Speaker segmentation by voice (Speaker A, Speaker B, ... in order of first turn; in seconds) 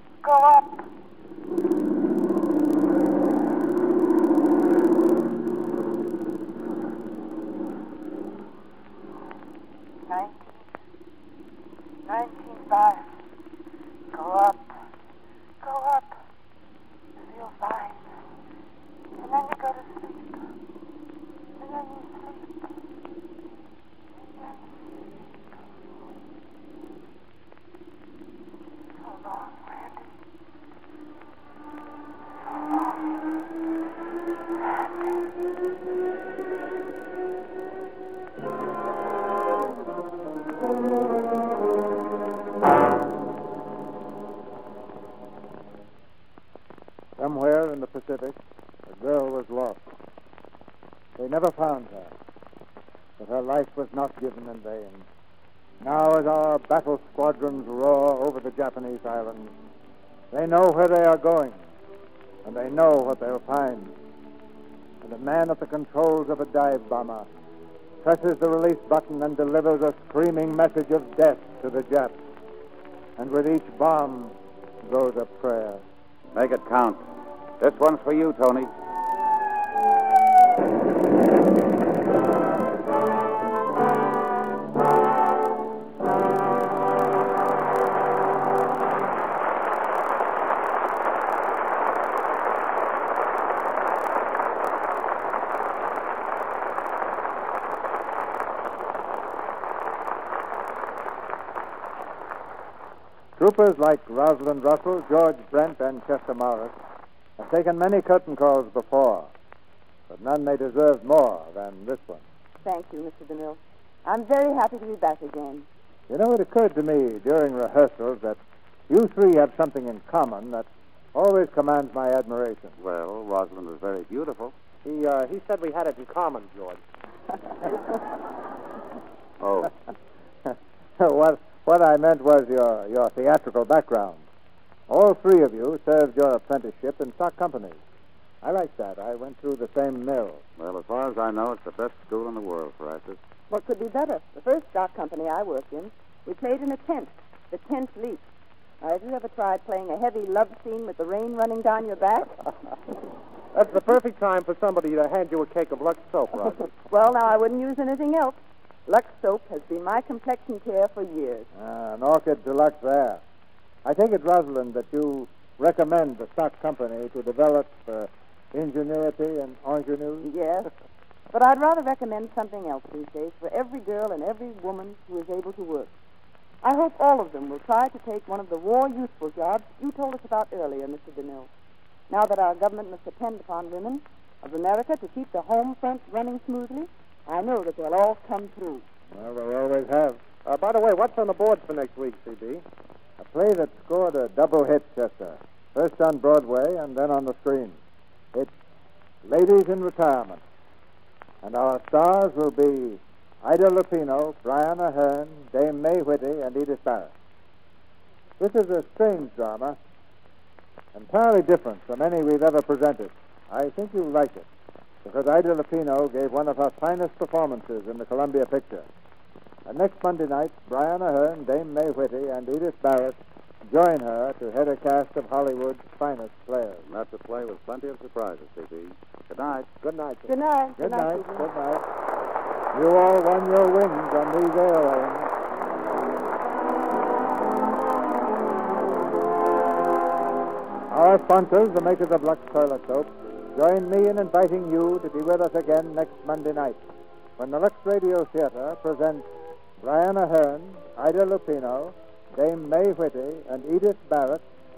Speaker A: 0.2-0.8, 10.1-10.4, 12.1-13.0, 14.1-14.6, 15.6-16.1, 17.3-18.0, 19.2-20.3, 21.6-22.4, 29.2-29.9, 112.6-115.7, 143.5-148.2, 148.8-152.3, 156.8-161.5, 170.2-170.7, 171.3-175.9, 176.6-181.5, 182.1-188.8, 230.3-231.5
Speaker B: 47.2-48.4, 48.9-49.9, 51.2-52.1, 53.2-55.1, 55.8-59.5, 60.3-61.6, 62.4-63.9, 65.0-67.3, 68.0-72.2, 73.2-75.8, 103.4-106.7, 107.4-109.3, 110.1-112.2, 116.1-122.7, 130.5-134.2, 134.9-137.8, 138.4-140.4, 161.5-163.2, 163.8-170.3, 189.1-190.2, 193.2-197.8, 199.2-200.4, 201.4-207.1, 208.4-209.8, 210.9-214.5, 215.1-218.9, 219.7-226.8, 230.8-231.8, 232.7-235.3, 240.9-246.8, 247.4-249.2, 249.8-254.4
Speaker C: 76.3-77.0, 77.6-78.7, 122.8-124.5, 129.4-129.7, 140.6-143.2, 226.9-229.7
Speaker D: 124.8-126.8, 153.5-156.7, 190.4-192.6, 229.8-230.3